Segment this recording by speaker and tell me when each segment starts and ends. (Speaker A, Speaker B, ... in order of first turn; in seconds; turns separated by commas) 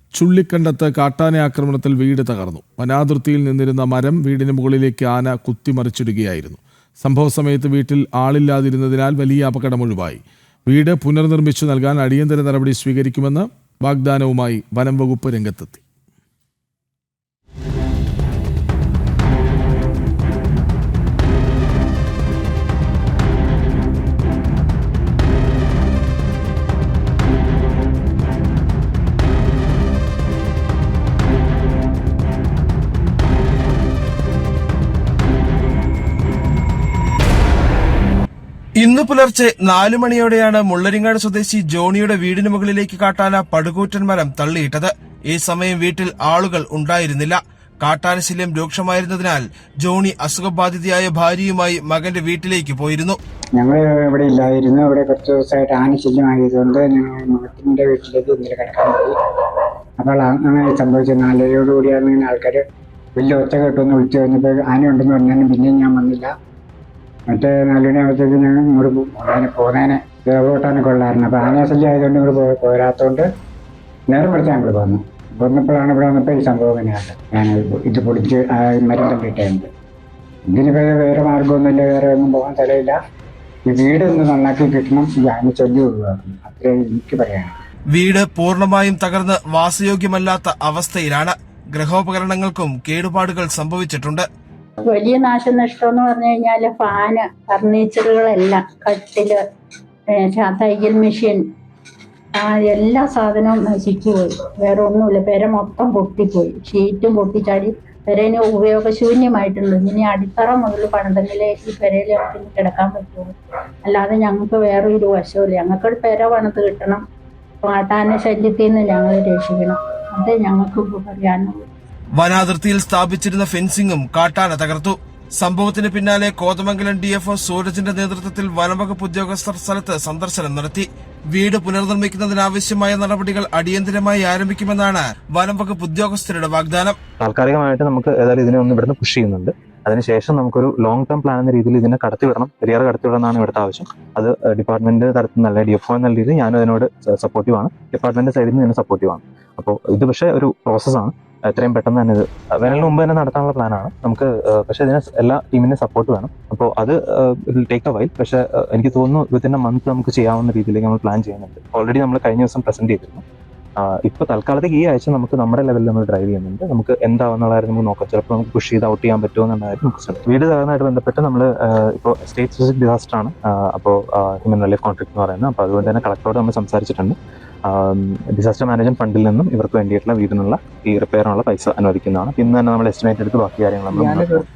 Speaker A: 0.1-15.8, Speaker B: 38.8-53.2, Speaker C: 53.6-59.1, Speaker C: 60.0-62.6, Speaker C: 63.1-66.3, Speaker C: 67.3-73.3, Speaker C: 74.1-79.7, Speaker C: 80.5-83.0, Speaker C: 83.7-87.6, Speaker B: 87.9-94.2, Speaker D: 94.8-99.4, Speaker D: 100.2-101.4, Speaker D: 102.3-113.3, Speaker D: 113.8-117.0, Speaker D: 117.6-121.6, Speaker B: 122.2-137.0, Speaker E: 137.2-163.2, Speaker E: 163.8-184.4, Speaker C: 183.9-184.4